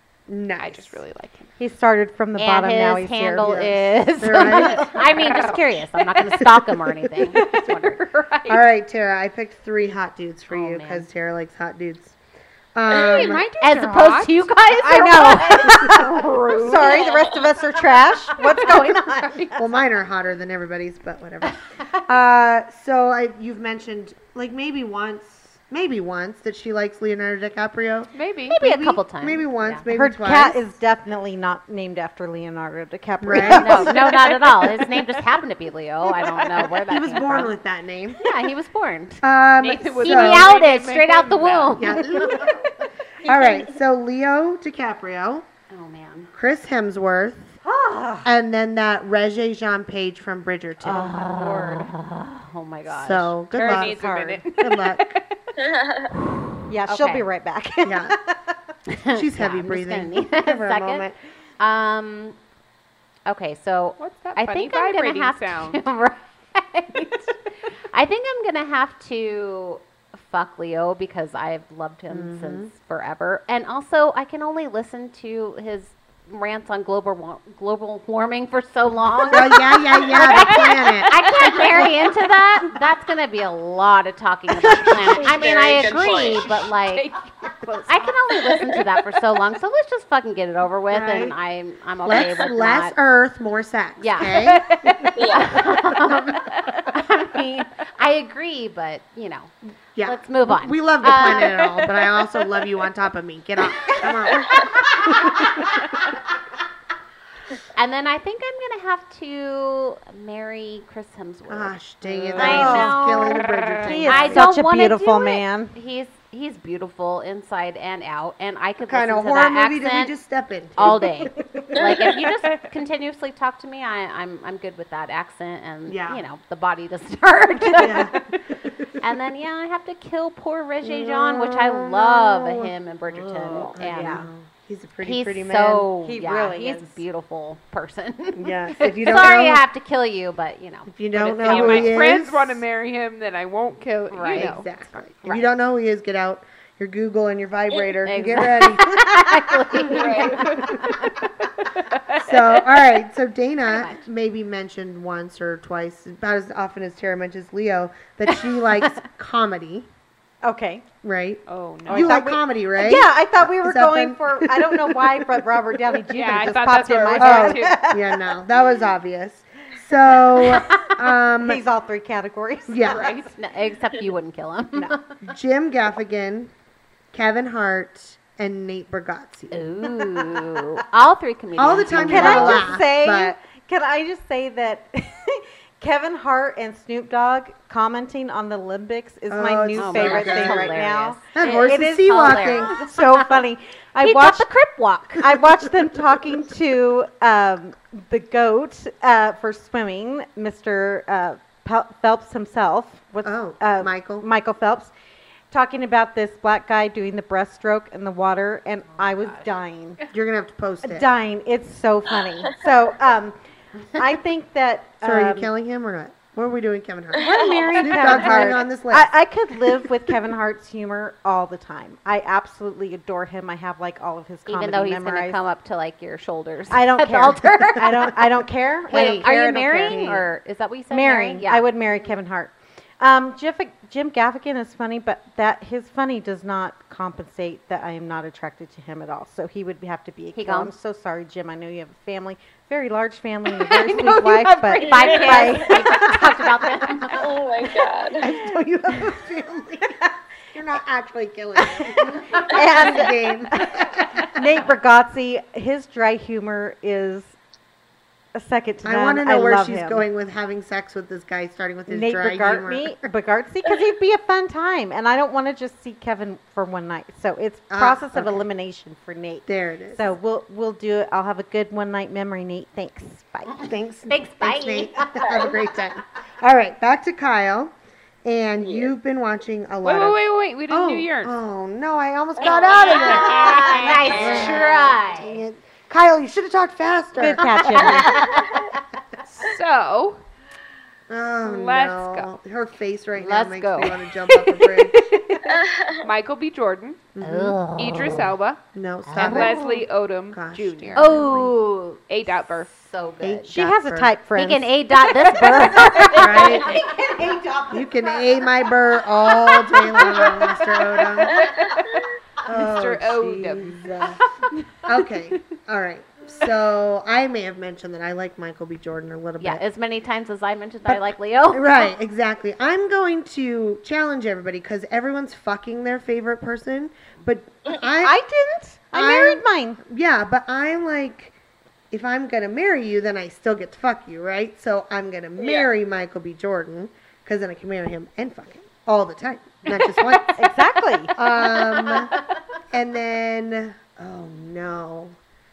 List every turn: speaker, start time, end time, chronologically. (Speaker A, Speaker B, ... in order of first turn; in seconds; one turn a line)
Speaker A: 0.3-1.0
Speaker B: 0.6-1.5
Speaker C: 1.6-3.7
Speaker D: 2.4-8.1
Speaker A: 3.4-5.4
Speaker B: 4.5-6.5
Speaker B: 7.3-8.6
Speaker A: 8.5-12.2
Speaker D: 10.5-11.1
Speaker A: 12.8-13.5
Speaker B: 12.9-14.6
Speaker D: 13.6-17.3
Speaker C: 14.8-19.6
Speaker B: 15.8-17.0
Speaker D: 18.4-18.8
Speaker A: 19.6-30.7
Speaker B: 28.1-28.6
Speaker D: 28.5-29.9
Speaker C: 29.9-35.0
Speaker A: 33.2-34.0
Speaker D: 33.5-37.5
Speaker A: 36.6-38.3
Speaker D: 38.2-39.2
Speaker A: 39.2-40.5
Speaker B: 39.6-42.5
Speaker D: 40.0-42.6
Speaker A: 41.8-42.7
Speaker A: 43.2-45.5
Speaker D: 45.7-46.3
Speaker A: 46.3-47.6
Speaker C: 47.6-48.3
Speaker A: 48.2-51.4
Speaker C: 50.8-51.9
Speaker D: 50.8-53.4
Speaker A: 52.9-55.2
Speaker B: 53.5-55.6
Speaker C: 53.6-54.4
Speaker E: 55.6-56.1
Speaker C: 56.7-58.6
Speaker D: 56.9-57.3
Speaker A: 57.8-58.1
Speaker D: 58.9-61.1
Speaker A: 59.1-61.2
Speaker D: 61.6-62.4
Speaker D: 63.3-67.3
Speaker B: 64.0-65.8
Speaker D: 67.9-87.1
Speaker A: 72.1-72.7
Speaker A: 79.3-81.6
Speaker B: 80.0-82.0
Speaker B: 84.7-89.0
Speaker E: 85.2-86.5
Speaker D: 87.9-93.0
Speaker A: 90.9-91.4
Speaker A: 92.0-96.2
Speaker D: 94.0-94.5
Speaker B: 94.2-95.6
Speaker D: 95.0-101.8
Speaker E: 95.2-95.6
Speaker B: 96.5-96.8
Speaker A: 100.0-105.8
Speaker D: 107.7-111.8
Speaker A: 111.5-114.5
Speaker B: 112.1-113.9
Speaker D: 112.3-113.5
Speaker C: 112.4-113.2
Speaker C: 113.8-115.7
Speaker D: 114.0-120.1
Speaker A: 118.8-121.7
Speaker D: 120.8-128.4
Speaker C: 120.8-121.7
Speaker A: 125.9-126.2
Speaker A: 127.8-128.9
Speaker D: 128.9-134.3
Speaker A: 130.8-132.7
Speaker C: 133.1-134.3
Speaker A: 133.8-135.9
Speaker D: 135.0-142.0
Speaker C: 136.0-137.0
Speaker A: 138.4-139.6
Speaker A: 140.9-142.6
Speaker B: 141.3-145.4
Speaker D: 144.1-144.6
Speaker A: 144.3-151.0
Speaker D: 148.1-151.2
Speaker E: 149.9-150.5
Speaker B: 151.2-152.7
Speaker A: 152.2-159.9
Speaker D: 153.7-154.1
Speaker C: 160.4-160.9
Speaker A: 161.0-171.6
Speaker B: 161.5-162.2
Speaker C: 161.9-168.4
Speaker B: 166.1-167.8
Speaker C: 169.9-173.2
Speaker A: 172.7-173.1
Speaker D: 172.8-175.2
Speaker A: 175.2-176.5
Speaker A: 177.1-179.6
Speaker D: 179.5-182.7
Speaker C: 179.8-180.8
Speaker A: 181.6-183.4
Speaker C: 182.0-194.5
Speaker A: 189.3-190.8
Speaker D: 189.8-193.4
Speaker A: 191.3-192.8
Speaker D: 194.0-195.4
Speaker C: 195.1-204.9
Speaker A: 203.2-204.3
Speaker C: 205.5-210.0
Speaker D: 208.9-209.5
Speaker A: 210.1-211.1
Speaker C: 210.8-213.4
Speaker C: 213.9-215.5
Speaker A: 215.0-219.1
Speaker C: 217.2-225.4
Speaker E: 217.2-217.8
Speaker D: 218.0-218.4
Speaker D: 224.5-228.3
Speaker C: 226.7-230.2
Speaker A: 228.9-230.3
Speaker D: 228.9-231.7
Speaker C: 230.9-247.1
Speaker D: 240.3-240.7
Speaker B: 243.7-246.1
Speaker D: 244.8-247.4
Speaker E: 247.2-248.3
Speaker A: 248.2-254.4
Speaker C: 251.6-257.4
Speaker C: 258.4-260.1
Speaker A: 258.8-263.1
Speaker C: 261.9-273.7
Speaker A: 267.7-268.4
Speaker A: 269.5-270.1
Speaker D: 273.5-275.5
Speaker A: 273.6-288.6
Speaker E: 278.6-278.9
Speaker B: 279.8-281.4
Speaker E: 282.4-283.3
Speaker B: 282.4-284.7
Speaker D: 282.9-285.4
Speaker E: 284.1-284.4
Speaker C: 287.2-288.4
Speaker D: 287.6-288.4
Speaker B: 289.2-290.2
Speaker A: 291.1-295.1
Speaker B: 291.4-292.3
Speaker D: 293.2-294.0
Speaker C: 294.9-295.6
Speaker E: 295.5-296.1
Speaker B: 296.0-297.0
Speaker A: 297.1-297.6
Speaker D: 297.2-298.3
Speaker B: 297.7-298.6
Speaker A: 298.7-299.8
Speaker D: 299.1-299.8
Speaker B: 299.1-301.5
Speaker A: 300.3-301.5
Speaker D: 301.0-303.5
Speaker B: 302.1-302.7
Speaker A: 303.2-304.1
Speaker C: 303.5-311.4
Speaker D: 304.4-306.9
Speaker A: 306.1-306.8
Speaker A: 307.7-311.6
Speaker E: 311.4-312.0
Speaker B: 311.4-313.9
Speaker A: 312.4-319.6
Speaker B: 314.5-314.9
Speaker D: 319.4-321.9
Speaker A: 320.9-328.2
Speaker C: 327.8-329.8
Speaker A: 328.9-331.3
Speaker A: 331.9-340.5
Speaker E: 335.4-335.7
Speaker C: 340.4-341.2
Speaker A: 341.1-342.1
Speaker A: 342.7-345.2